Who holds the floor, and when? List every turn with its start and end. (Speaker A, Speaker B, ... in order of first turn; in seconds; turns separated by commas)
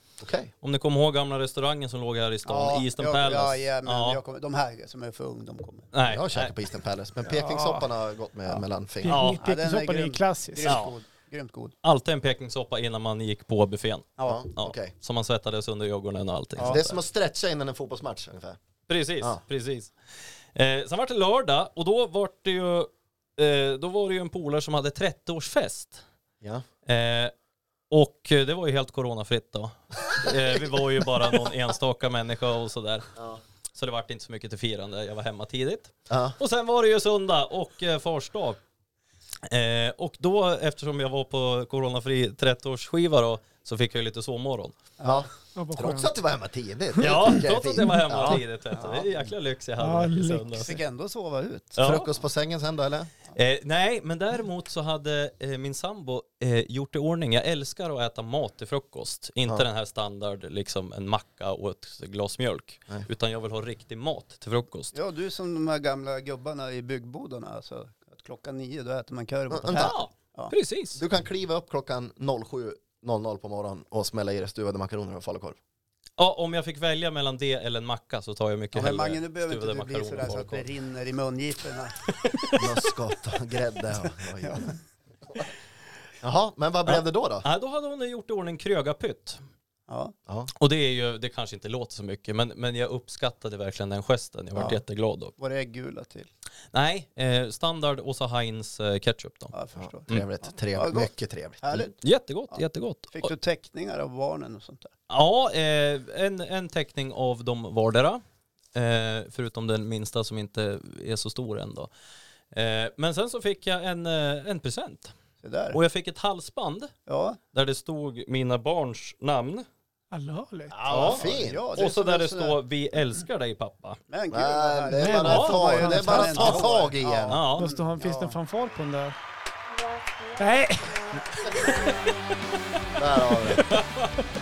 Speaker A: 0.2-0.5, Speaker B: 0.6-4.2, Speaker C: 2.5-5.9, Speaker B: 5.9-6.5, Speaker A: 6.1-9.2, Speaker D: 7.3-7.8, Speaker D: 9.0-10.8, Speaker B: 9.1-9.4, Speaker C: 9.4-11.8, Speaker B: 10.6-10.9, Speaker B: 11.8-17.0, Speaker C: 14.2-14.5, Speaker A: 14.2-14.9, Speaker A: 16.6-18.6, Speaker B: 18.9-19.9, Speaker B: 20.6-26.0, Speaker B: 26.9-27.3, Speaker B: 27.9-33.1, Speaker B: 33.8-38.6, Speaker A: 36.1-36.4, Speaker B: 39.5-44.7, Speaker C: 45.0-45.2, Speaker A: 45.0-48.4, Speaker D: 45.6-46.1, Speaker B: 47.0-50.8, Speaker C: 48.8-49.0, Speaker D: 49.8-50.6, Speaker C: 50.6-51.8, Speaker B: 51.8-52.1, Speaker A: 51.8-53.1, Speaker B: 53.4-65.0, Speaker C: 64.9-70.5, Speaker A: 69.5-70.0, Speaker B: 69.7-71.0, Speaker A: 71.0-75.6, Speaker B: 76.2-80.7, Speaker C: 78.8-82.0, Speaker A: 82.6-84.7, Speaker C: 84.4-84.7, Speaker A: 86.2-87.5, Speaker B: 86.9-89.4, Speaker C: 89.9-90.1, Speaker B: 90.6-95.3, Speaker C: 95.4-96.3, Speaker B: 96.7-99.5, Speaker C: 99.5-102.0, Speaker A: 99.8-101.9, Speaker B: 102.0-103.3, Speaker C: 102.5-104.9, Speaker B: 105.1-108.2, Speaker B: 108.8-111.9, Speaker B: 112.5-115.1, Speaker C: 115.4-115.8, Speaker B: 115.7-116.9, Speaker C: 117.1-117.4, Speaker B: 117.5-119.7, Speaker D: 120.1-120.8, Speaker B: 120.7-124.0, Speaker C: 120.9-122.6, Speaker A: 120.9-121.7, Speaker C: 124.1-128.4, Speaker A: 124.3-127.4, Speaker D: 125.0-126.7, Speaker B: 125.2-125.6, Speaker B: 127.3-127.7, Speaker D: 127.6-129.2, Speaker D: 130.4-131.2, Speaker A: 133.0-133.8, Speaker B: 133.6-134.1